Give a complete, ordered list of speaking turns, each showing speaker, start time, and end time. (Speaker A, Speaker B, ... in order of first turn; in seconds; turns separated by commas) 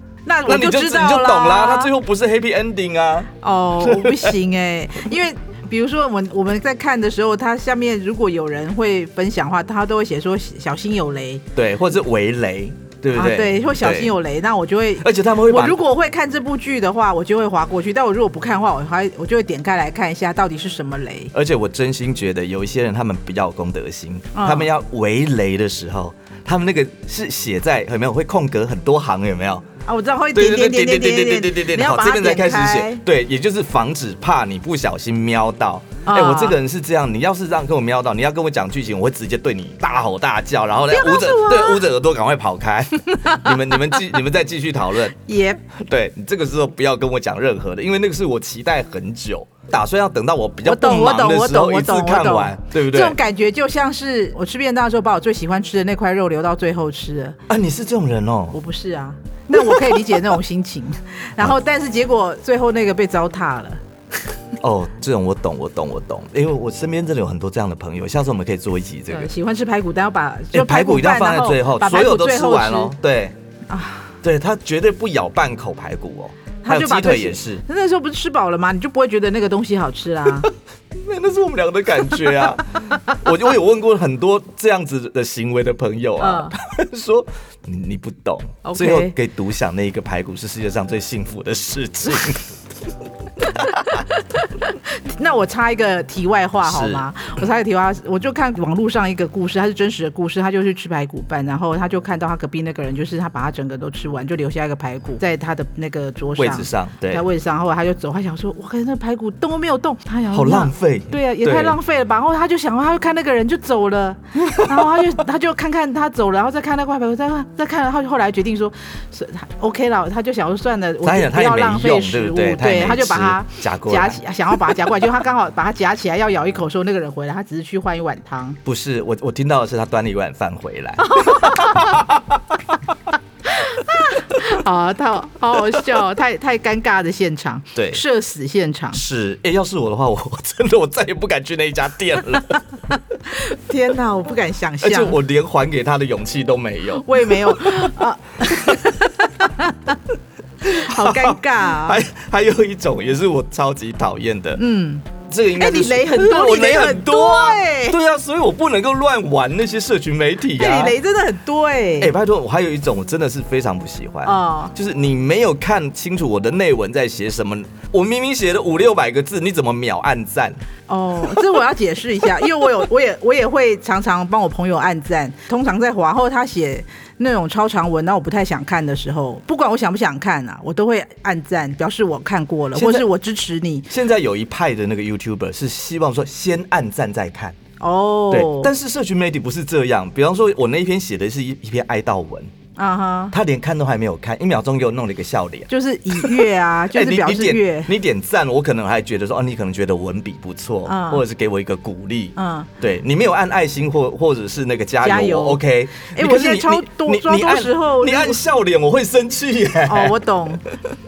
Speaker A: 0.3-1.9, Speaker B: 0.5-4.3, Speaker A: 3.4-11.4, Speaker B: 11.6-14.2, Speaker A: 13.1-21.3, Speaker B: 15.0-15.8, Speaker B: 21.3-29.7, Speaker A: 24.3-24.7, Speaker A: 29.9-33.0, Speaker B: 30.3-45.2, Speaker A: 36.1-36.6, Speaker A: 40.9-41.9, Speaker A: 43.1-43.5, Speaker A: 45.2-45.6, Speaker B: 45.7-53.2, Speaker A: 50.6-57.4, Speaker B: 57.5-58.6, Speaker A: 58.5-63.8, Speaker B: 59.5-60.2, Speaker B: 64.6-69.3, Speaker A: 69.1-72.9, Speaker B: 70.5-73.4, Speaker A: 73.7-74.2, Speaker B: 74.2-77.6, Speaker A: 76.6-80.5, Speaker B: 80.4-92.5, Speaker A: 86.2-86.5, Speaker A: 88.6-89.2, Speaker B: 93.4-93.8, Speaker A: 93.5-128.6, Speaker B: 96.6-97.1, Speaker B: 106.4-107.2, Speaker B: 110.3-111.8, Speaker B: 114.4-115.1, Speaker B: 121.0-124.2, Speaker B: 128.7-132.6, Speaker A: 131.0-132.1, Speaker A: 133.5-139.0, Speaker B: 137.8-138.0, Speaker B: 138.9-142.7, Speaker A: 143.3-145.2, Speaker B: 144.8-148.0, Speaker A: 147.0-150.0, Speaker B: 148.6-148.9, Speaker A: 150.6-152.0, Speaker B: 150.6-154.6, Speaker A: 154.6-158.0, Speaker B: 155.3-161.0, Speaker A: 160.5-162.1, Speaker B: 162.0-170.6, Speaker A: 164.2-164.7, Speaker A: 170.9-183.9, Speaker B: 182.7-183.1, Speaker B: 183.9-187.6, Speaker A: 187.8-188.7, Speaker B: 188.3-192.5, Speaker A: 192.8-193.3, Speaker B: 193.3-210.2, Speaker A: 195.7-197.9, Speaker A: 200.9-201.2, Speaker A: 202.4-202.7, Speaker A: 205.0-208.4, Speaker A: 209.9-210.6